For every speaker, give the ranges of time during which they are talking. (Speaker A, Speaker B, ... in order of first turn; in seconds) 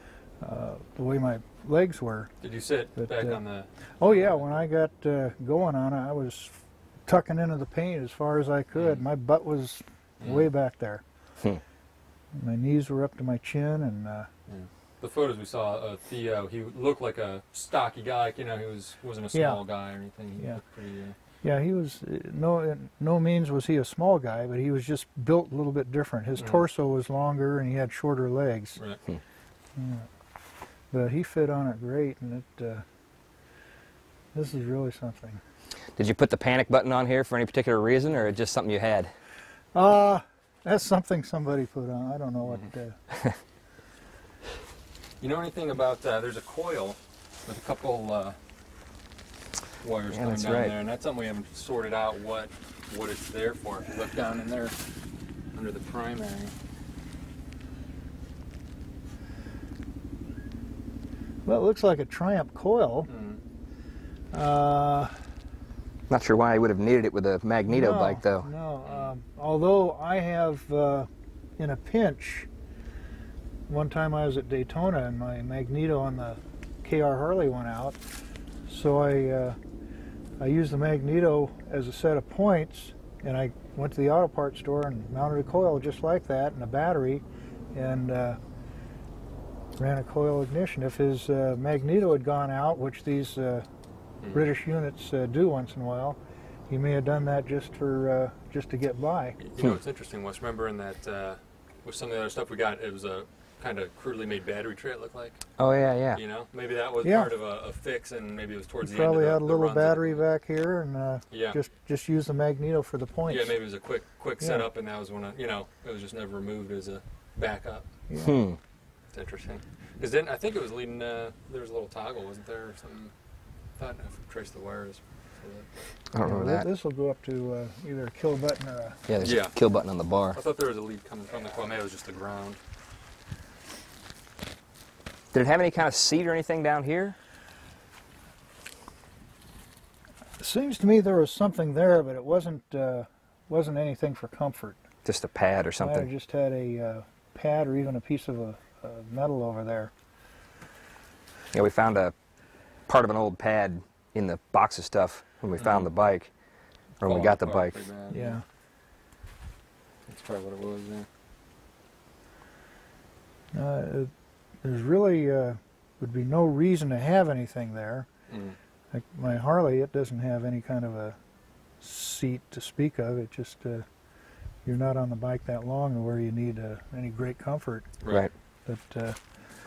Speaker A: 0.4-2.3, 3.0-3.4, 4.0-11.0, 12.3-14.3, 19.3-19.6, 21.4-28.8, 29.8-30.1, 30.9-32.9, 34.3-35.4, 39.7-43.0, 61.5-63.1, 64.3-65.1, 67.7-72.5, 73.7-78.0, 78.7-79.6, 80.4-88.4, 89.8-93.7, 94.3-99.4, 107.0-107.3, 108.8-113.5, 114.4-114.7, 118.1-118.4, 126.2-129.1, 140.4-144.8, 145.8-149.9, 158.1-158.4, 163.5-164.1, 164.6-168.1, 168.9-171.2, 171.8-173.9, 174.7-177.9, 178.7-179.2
Speaker B: 2.4-4.6, 8.8-9.0, 10.2-10.5, 14.5-21.2, 26.4-26.6, 45.2-48.4, 49.8-54.8, 55.5-56.5, 63.1-63.4, 94.2-94.5, 99.4-105.5, 106.1-110.2, 111.3-111.6, 113.3-117.9, 119.1-123.1, 123.8-125.7, 129.2-129.6, 130.3-132.6, 155.6-155.9, 157.0-158.4, 160.1-161.1, 168.3-168.6, 178.0-178.3
Speaker C: 36.0-39.1, 43.1-43.4, 50.1-50.7, 66.1-68.5, 105.6-106.2, 118.2-118.6, 126.1-126.7, 129.1-130.4, 135.3-137.2, 145.1-146.1, 151.5-152.1, 152.9-156.3, 157.0-157.8, 178.1-178.3